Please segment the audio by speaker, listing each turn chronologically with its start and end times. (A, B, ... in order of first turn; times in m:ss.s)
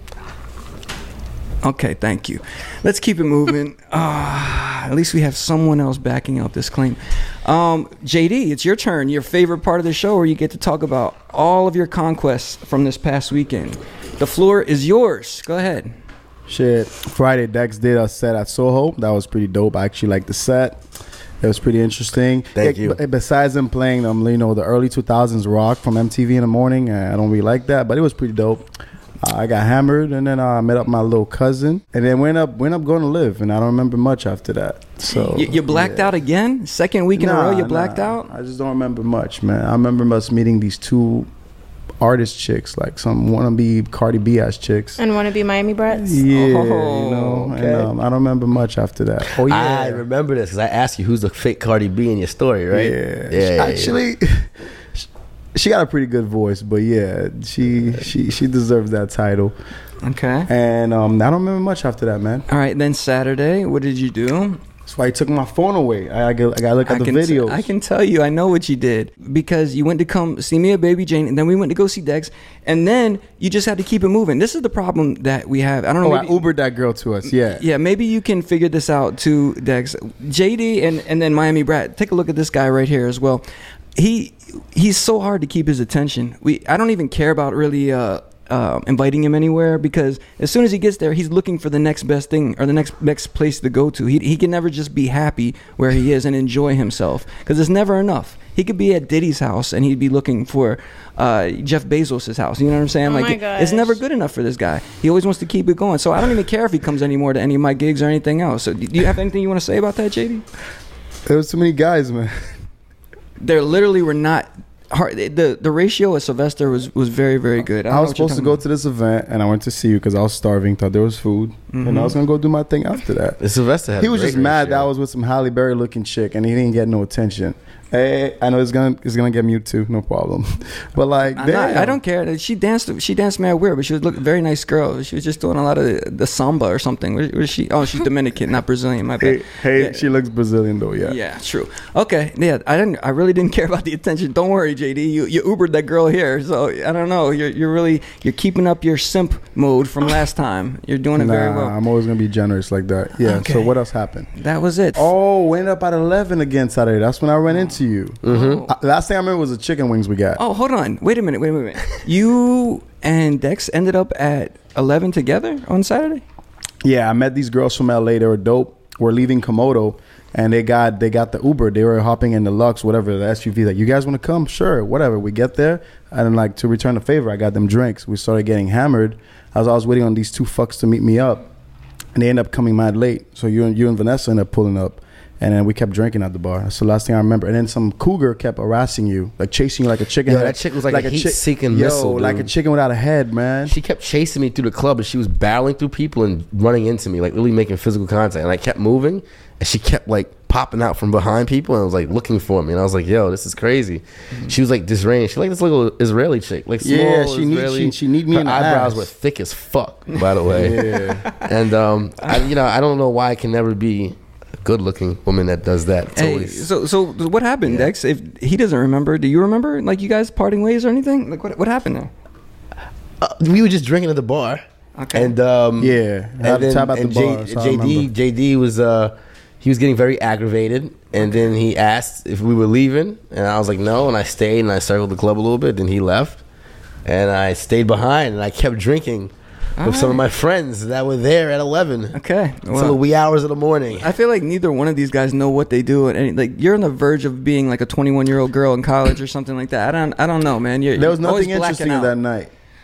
0:01.6-0:15.9 A
0:16.5-0:20.8 B
0:21.4-0:28.7 B
0:22.6-0:23.0 C
0:29.2-0:36.1 B
0:35.3-0:38.3 A
0:37.1-0:41.3 B
0:42.0-0:45.0 B
0:45.0-0:46.2 D
0:45.9-0:50.0 B
0:46.3-0:47.6 A
0:47.6-0:47.9 C
0:49.3-0:53.9 C
0:52.7-0:59.6 B
1:00.0-1:00.5 A
1:00.5-1:02.5 B
1:02.5-1:04.6 A
1:04.9-1:07.7 B
1:06.9-1:16.4 A
1:16.0-1:17.6 B
1:17.3-1:23.4 A
1:24.0-1:50.4 A
1:43.1-1:44.0 D
1:51.3-1:52.5 B
1:53.4-1:58.6 A
1:57.9-2:03.4 B
2:01.7-2:02.2 A
2:03.4-2:04.9 C
2:04.0-2:12.0 B
2:11.4-2:20.0 A
2:19.2-2:21.2 B
2:21.0-2:31.8 A
2:31.2-2:34.3 B
2:33.2-2:33.8 A
2:34.4-2:35.1 A
2:35.0-2:40.4 B
2:38.2-2:38.7 C
2:38.2-2:38.7 A
2:40.4-2:46.2 A
2:46.8-3:01.4 B
3:02.2-3:13.8 B
3:10.3-3:12.5 C
3:13.7-3:30.8 C
3:26.8-3:29.1 B
3:30.2-3:31.5 A
3:30.5-3:31.3 B
3:31.4-3:36.6 C
3:32.2-3:32.5 A
3:36.2-3:42.1 A
3:37.6-3:37.9 C
3:43.2-3:44.6 C
3:45.0-3:45.4 A
3:45.1-3:56.4 C
3:45.8-3:48.1 B
3:57.1-4:02.2 C
3:59.8-4:00.2 A
4:02.1-4:03.0 A
4:02.7-4:04.1 C
4:03.9-4:12.1 A
4:11.0-4:12.5 B